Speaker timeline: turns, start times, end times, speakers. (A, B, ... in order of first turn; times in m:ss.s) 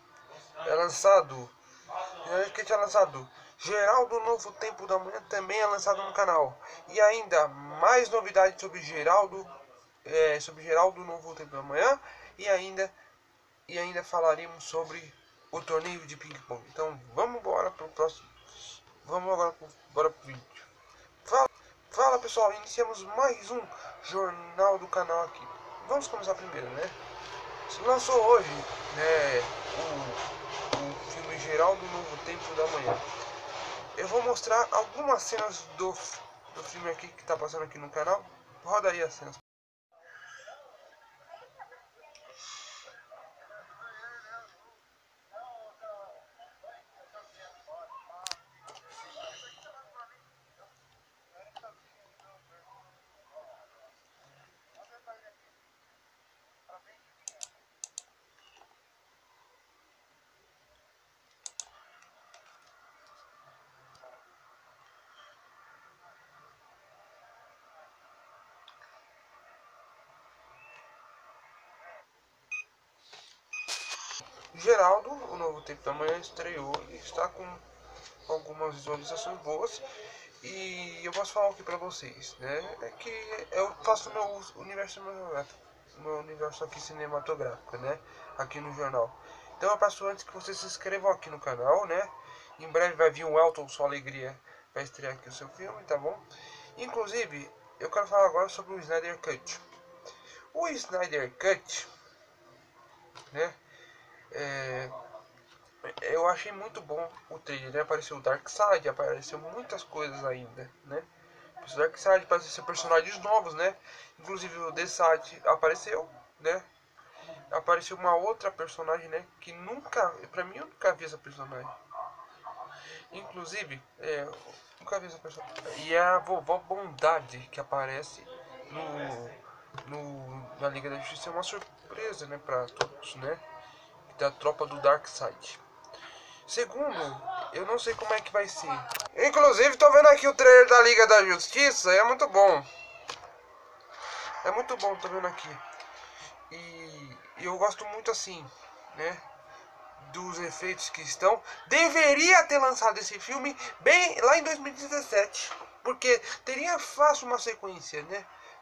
0:00.6-0:12.9 A
0:13.7-0:20.7 A
0:21.2-0:27.0 A
0:27.7-0:33.1 A
0:33.9-0:39.4 A
1:14.5-1:17.6 A
1:18.2-1:19.9 A
1:20.4-1:39.6 A
1:40.5-1:41.9 A
1:43.3-1:43.6 A
1:44.3-1:44.9 A
1:45.8-1:51.1 A
1:51.6-1:56.7 A
1:57.5-2:01.8 A
2:03.1-2:13.4 A
2:14.1-2:15.6 A
2:16.4-2:22.7 A
2:24.4-2:25.6 A
2:26.5-2:29.2 A
2:30.0-2:38.3 A